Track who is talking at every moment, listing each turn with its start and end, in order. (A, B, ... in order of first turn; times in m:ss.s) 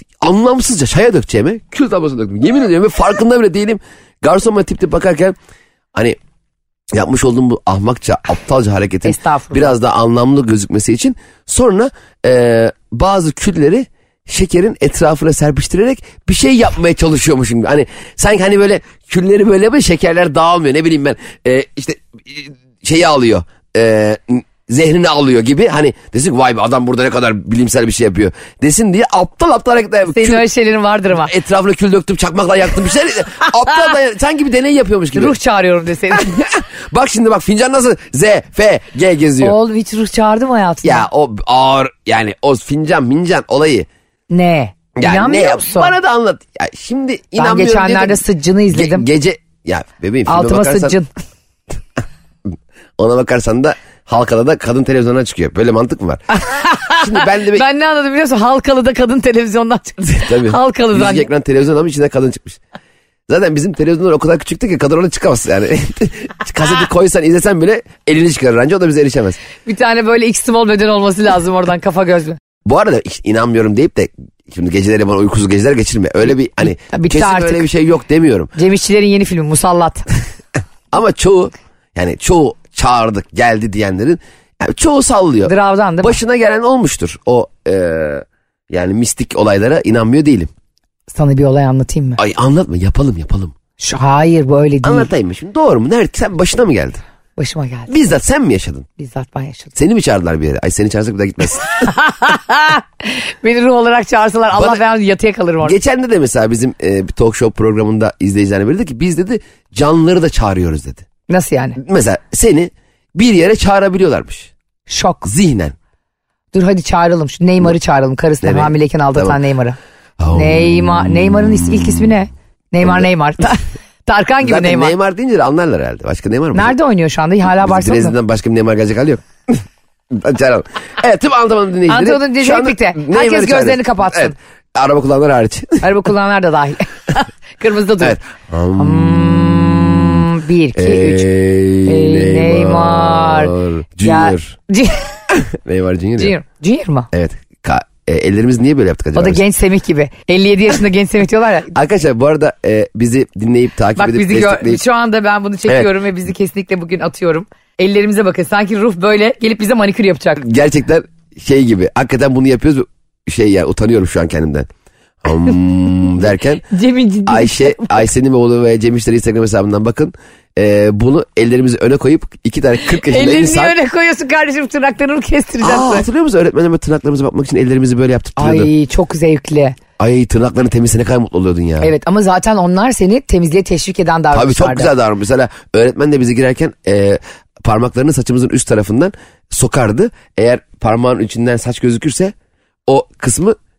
0:00.2-0:05.4 A
0:06.9-0:30.4 A
0:09.1-0:09.8 B
0:30.1-0:31.3 B
0:31.1-0:35.4 A
0:35.1-0:36.3 B
0:36.1-0:39.6 A
0:39.4-0:41.1 B
0:40.8-0:43.9 A
0:44.3-0:45.9 B
0:45.0-0:51.0 A
0:47.4-0:49.1 B
0:50.3-0:51.1 B
0:53.0-0:56.2 A
0:56.4-1:01.3 B
0:56.9-0:57.6 A
1:00.2-1:02.6 A
1:03.3-1:09.4 A
1:09.6-1:12.4 B
1:12.6-1:18.5 A
1:16.6-1:17.6 B
1:18.6-1:20.1 B
1:20.9-1:30.5 A
1:25.5-1:26.2 B
1:31.1-1:32.2 B
1:32.2-1:33.5 A
1:33.8-1:35.1 B
1:34.8-1:37.0 A
1:37.4-1:37.9 B
1:37.9-1:38.9 A
1:39.0-1:39.7 B
1:39.8-1:41.7 A
1:41.7-1:45.8 B
1:44.5-1:44.8 A
1:45.6-1:51.1 A
1:51.3-1:51.8 B
1:51.8-1:54.5 A
1:54.9-1:55.3 B
1:55.2-1:55.8 A
1:56.5-1:59.8 B
1:58.4-1:59.4 A
2:00.2-2:02.0 A
2:00.3-2:04.9 B
2:04.4-2:06.8 A
2:06.5-2:08.2 B
2:07.4-2:15.9 A
2:11.9-2:14.4 B
2:15.8-2:18.2 B
2:18.0-2:20.0 A
2:18.8-2:21.3 B
2:20.8-2:24.6 A
2:21.8-2:23.5 B
2:24.0-2:25.2 B
2:25.3-2:26.4 A
2:26.2-2:27.1 B
2:27.1-2:29.4 A
2:29.1-2:31.7 B
2:31.7-2:34.8 A
2:34.0-2:40.4 B
2:40.4-2:44.7 A
2:45.2-2:46.7 A
2:46.7-2:48.1 B
2:47.3-2:53.8 A
2:52.8-2:56.1 B
2:55.6-2:58.7 A
2:58.4-2:59.8 B
3:00.0-3:01.9 A
3:01.8-3:04.9 B
3:04.3-3:12.3 A
3:12.9-3:13.6 A